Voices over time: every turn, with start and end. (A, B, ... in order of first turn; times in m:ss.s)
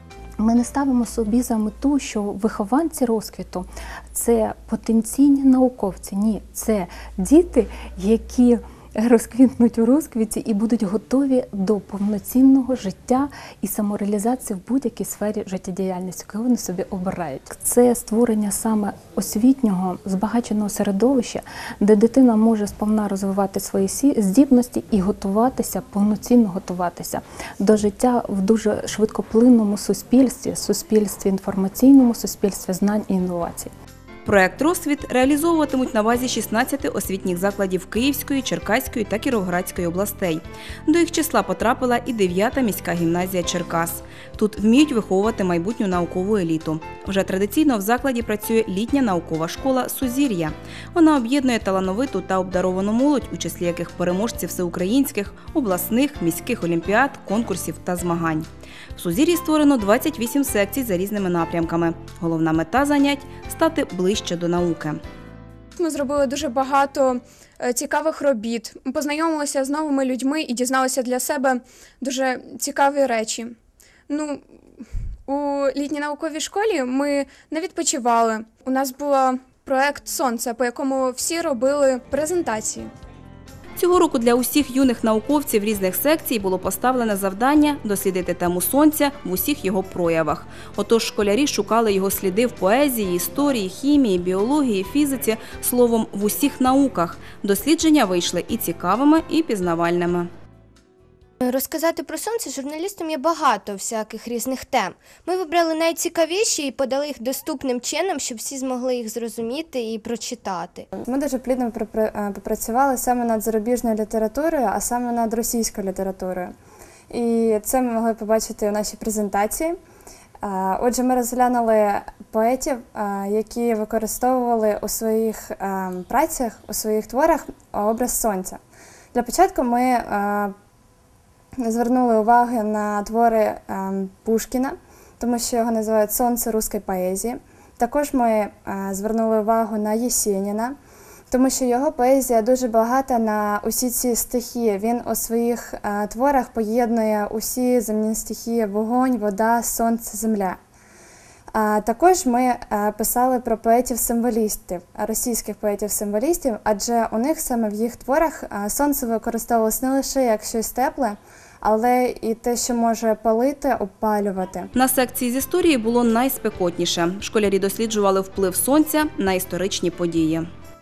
0:00.4-0:33.7 A
0:34.2-1:05.0 B
1:05.8-1:13.5 C
1:14.1-1:14.4 C
1:15.3-1:22.9 C
1:23.8-1:40.3 B
1:41.4-1:50.8 D
1:51.0-1:56.5 E
1:57.1-1:59.8 E
2:00.4-2:08.6 E
2:09.1-2:10.5 E
2:11.6-2:20.8 E
2:21.3-2:30.6 E
2:31.5-2:44.7 E
2:44.7-2:50.5 B